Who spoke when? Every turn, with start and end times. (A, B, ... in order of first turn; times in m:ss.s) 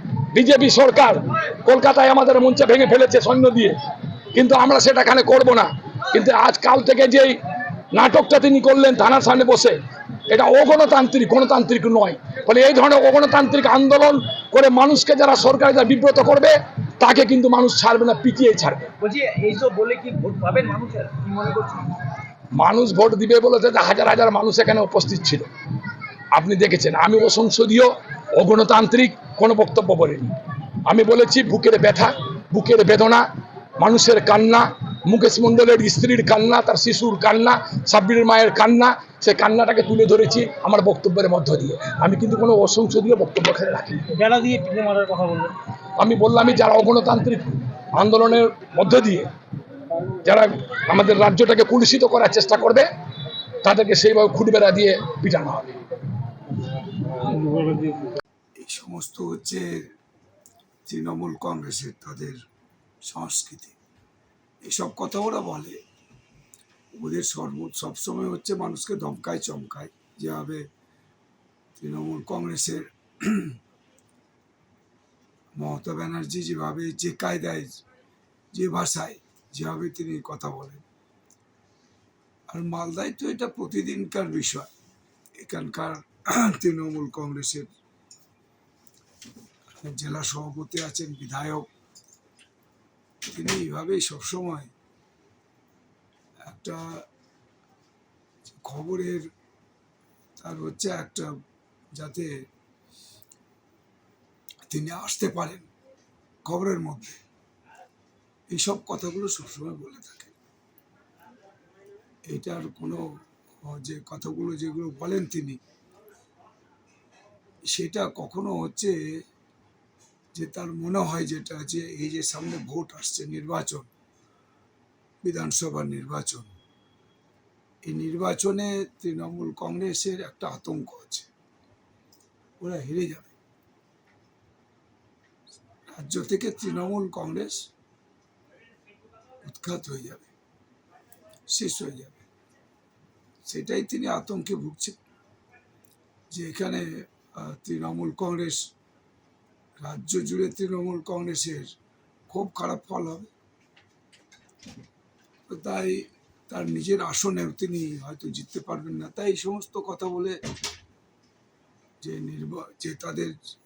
0:00.3-0:03.8 A
0:04.3-0:07.3 A
0:07.9-0:09.8 A
0:10.3-0:18.9 A
0:19.0-0:21.9 B
0:22.5-0:25.5 A
0:26.3-0:30.3 A
0:30.9-0:33.2 A
0:33.8-0:44.0 A
0:44.2-0:45.5 B
0:46.0-0:49.3 A
0:50.2-0:52.9 A
0:53.6-0:55.7 A
0:57.2-0:58.0 B
0:58.6-0:59.8 C
1:00.9-1:02.4 C
1:03.1-1:03.8 C
1:04.6-1:05.8 C
1:07.0-1:10.6 C
1:11.8-1:13.6 C
1:15.6-1:17.8 C
1:18.5-1:20.8 C
1:22.5-1:24.7 C
1:25.4-1:27.7 C
1:29.8-1:31.7 C
1:33.3-1:34.7 C
1:36.5-1:37.0 C
1:38.6-1:39.2 C
1:40.4-1:41.3 C
1:42.0-1:42.3 C
1:44.7-1:45.7 C
1:46.5-1:47.2 C
1:48.5-1:50.3 C
1:52.3-1:53.0 C
1:53.6-1:55.6 C
1:57.7-1:59.0 C
2:00.3-2:03.9 C
2:05.2-2:06.5 C
2:07.9-2:11.3 C
2:12.6-2:13.3 C
2:15.9-2:17.7 C
2:19.4-2:20.3 C
2:21.5-2:22.2 C
2:23.5-2:25.0 C
2:26.3-2:28.6 C
2:29.8-2:31.7 C
2:32.3-2:33.3 C
2:35.5-2:40.4 C
2:42.0-2:43.3 C